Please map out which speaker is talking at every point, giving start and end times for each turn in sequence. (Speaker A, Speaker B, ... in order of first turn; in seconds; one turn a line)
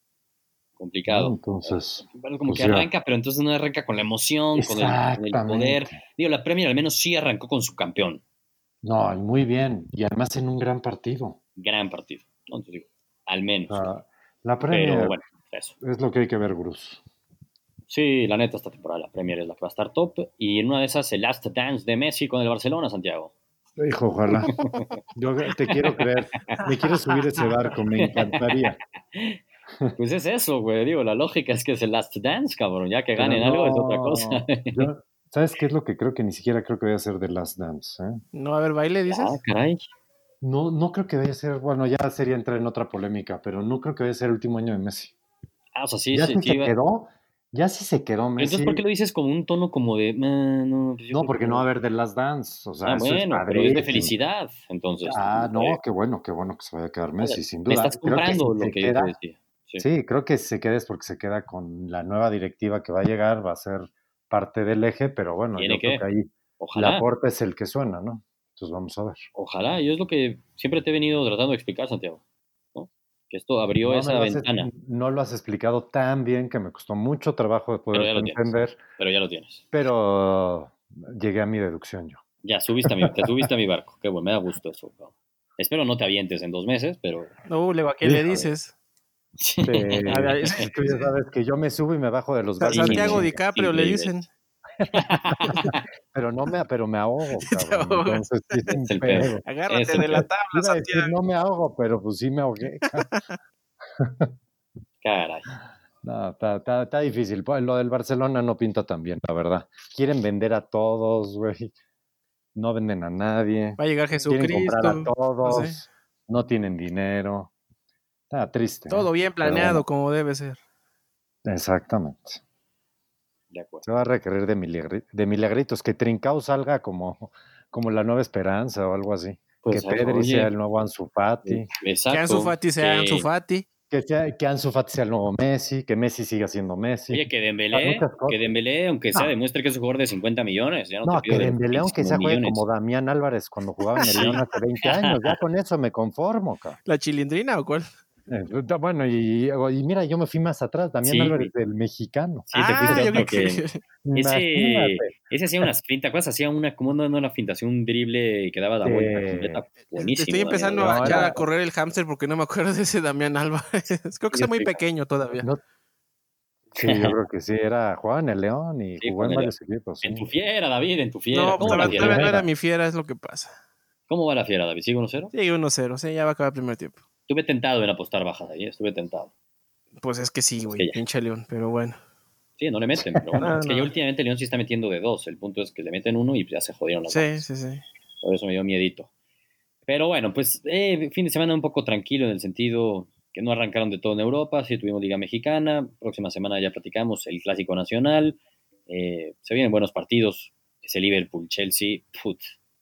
Speaker A: 0.8-8.2
Speaker B: 1.1-2.9
Speaker B: 4.5-6.0
Speaker B: 8.8-11.4
Speaker A: 11.6-13.9
Speaker B: 13.7-15.2
Speaker A: 14.7-15.8
Speaker B: 15.8-17.0
Speaker A: 17.9-23.3
Speaker B: 23.8-24.5
Speaker A: 24.4-24.9
Speaker C: 24.5-24.8
Speaker B: 25.1-28.8
Speaker A: 25.7-26.6
Speaker C: 26.6-27.5
Speaker A: 28.0-29.4
Speaker A: 30.0-34.9
Speaker B: 33.2-38.2
Speaker C: 38.3-39.4
Speaker A: 39.1-39.9
Speaker B: 40.4-45.1
Speaker A: 45.8-46.7
Speaker B: 46.1-48.8
Speaker A: 48.4-51.7
Speaker B: 51.1-54.1
Speaker A: 52.9-55.8
Speaker B: 55.1-59.1
Speaker A: 57.2-59.9
Speaker B: 59.8-69.3
Speaker A: 65.5-66.0
Speaker A: 66.6-67.1
Speaker A: 69.3-72.2
Speaker A: 72.8-74.7
Speaker B: 73.8-78.8
Speaker A: 77.9-79.7
Speaker B: 79.7-82.2
Speaker A: 82.4-87.3
Speaker B: 82.8-83.5
Speaker C: 87.5-88.7
Speaker B: 88.0-88.5
Speaker A: 89.4-90.6
Speaker B: 89.7-93.4
Speaker C: 90.1-91.1
Speaker C: 92.6-94.3
Speaker A: 92.7-94.2
Speaker A: 94.9-95.8
Speaker B: 95.5-103.1
Speaker C: 97.5-98.8
Speaker A: 98.8-100.2
Speaker C: 99.5-101.2
Speaker C: 102.8-103.4
Speaker B: 104.0-104.3
Speaker A: 105.0-105.5
Speaker B: 106.0-111.7
Speaker B: 112.5-117.5
Speaker C: 113.8-115.8
Speaker B: 118.3-119.8
Speaker C: 118.9-120.6
Speaker B: 121.5-122.4
Speaker A: 123.5-123.9
Speaker B: 123.8-131.7
Speaker A: 129.6-130.5
Speaker A: 131.5-133.3
Speaker C: 132.1-133.7
Speaker B: 133.9-138.5
Speaker A: 137.1-142.7
Speaker B: 141.1-146.8
Speaker C: 144.0-144.4
Speaker A: 144.1-145.4
Speaker C: 146.9-147.9
Speaker B: 148.3-153.3
Speaker A: 151.1-151.5
Speaker A: 152.5-161.4
Speaker C: 152.5-153.8
Speaker B: 154.0-155.1
Speaker B: 158.8-159.6
Speaker C: 159.9-165.5
Speaker B: 160.8-161.4
Speaker A: 164.3-164.8
Speaker B: 166.7-170.3
Speaker A: 166.8-167.2
Speaker A: 169.0-169.5
Speaker A: 170.0-172.3
Speaker C: 171.3-173.5
Speaker B: 171.6-172.5
Speaker A: 174.1-175.3
Speaker C: 175.3-177.0
Speaker A: 177.3-179.3
Speaker C: 180.0-182.0
Speaker A: 180.7-181.0
Speaker A: 182.6-187.4
Speaker B: 183.1-183.4
Speaker C: 183.4-183.9
Speaker C: 187.1-187.8
Speaker A: 188.2-189.1
Speaker A: 189.9-202.5